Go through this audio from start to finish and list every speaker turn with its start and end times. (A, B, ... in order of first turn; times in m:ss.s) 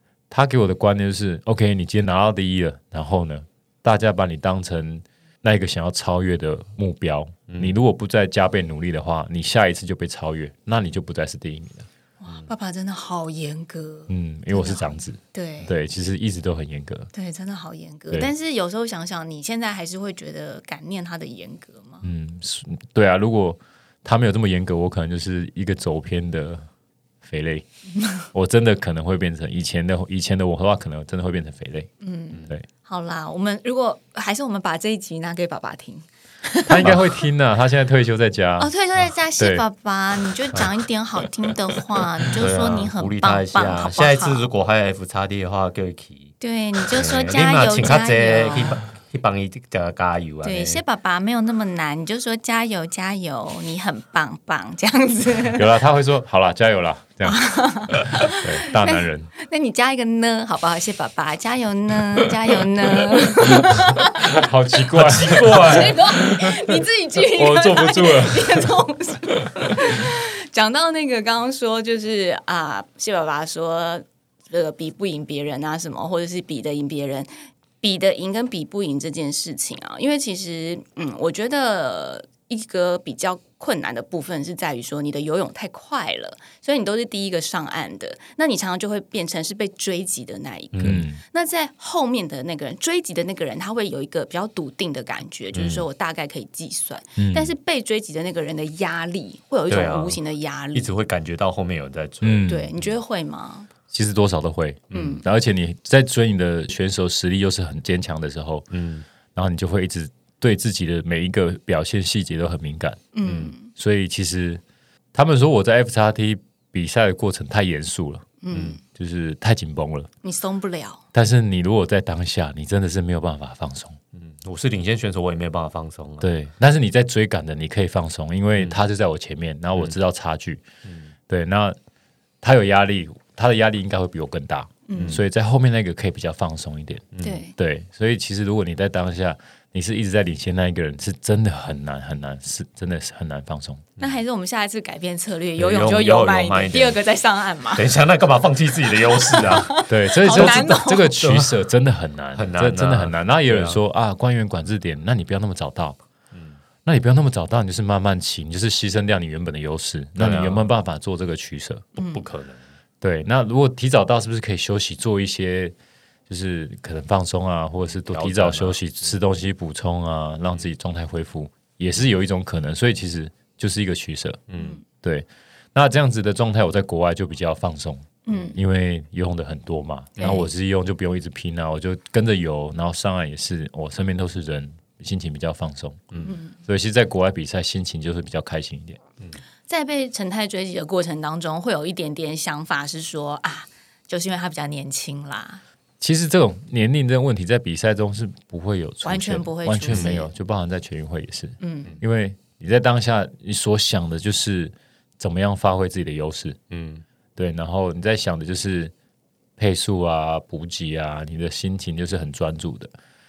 0:00.3-0:11.9 A
0:07.5-0:07.7 B
0:12.2-0:15.7 C
0:14.1-0:17.1 A
0:17.1-0:22.1 C
0:22.0-0:26.6 A
0:27.2-0:27.6 A
0:27.9-0:28.2 C
0:28.3-0:31.9 A
0:32.0-0:37.2 C
0:36.7-0:38.7 A
0:38.6-0:44.5 C
0:39.4-0:39.6 A
0:42.4-0:46.3 B
0:46.4-0:48.8 C
0:46.9-0:50.8 B
0:50.4-0:55.7 C
0:55.5-0:59.3 A
0:57.2-1:04.4 C
1:03.5-1:08.7 A
1:04.9-1:06.0 B
1:05.3-1:17.3 C
1:17.8-1:40.9 C
1:30.7-1:31.0 B
1:30.8-1:31.2 A
1:35.5-1:35.8 B
1:37.2-1:37.5 A
1:39.7-1:40.2 B
1:40.7-1:42.9 B
1:42.2-1:42.7 A
1:42.5-1:43.7 C
1:43.9-1:48.7 A
1:44.9-1:45.2 B
1:48.7-1:49.0 B
1:49.3-1:53.0 A
1:53.1-1:53.7 C
1:53.2-1:53.5 B
1:53.7-1:54.6 A
1:55.1-1:58.3 A
1:58.4-1:58.8 C
1:58.5-1:58.8 B
1:58.8-2:00.1 A
2:00.2-2:01.0 C
2:01.1-2:04.0 A
2:04.1-2:06.3 B
2:06.2-2:10.6 A
2:10.8-2:11.1 B
2:11.3-2:11.8 A
2:12.4-2:23.9 A
2:14.8-2:15.2 C
2:14.9-2:15.2 B
2:17.1-2:17.4 B
2:17.2-2:17.5 C
2:24.0-2:27.9 C
2:25.6-2:27.0 B
2:27.7-2:31.5 B
2:28.9-2:31.1 C
2:29.9-2:36.0 A
2:32.3-2:33.8 B
2:36.3-2:36.6 B
2:36.8-2:41.9 A
2:40.2-2:40.7 B
2:42.0-2:42.7 B
2:42.0-2:42.2 C
2:43.0-2:45.7 A
2:46.3-2:54.4 A
2:47.9-2:49.2 B
2:54.5-2:54.8 B
2:55.0-3:09.0 A
2:58.2-2:58.6 C
3:00.2-3:00.4 C
3:06.1-3:06.4 B
3:06.2-3:06.5 C
3:09.7-3:15.6 C
3:16.0-3:26.6 A
3:19.0-3:20.3 C
3:19.9-3:20.2 B
3:21.6-3:21.9 C
3:26.7-3:27.0 B
3:27.4-3:28.9 A
3:29.6-3:32.9 A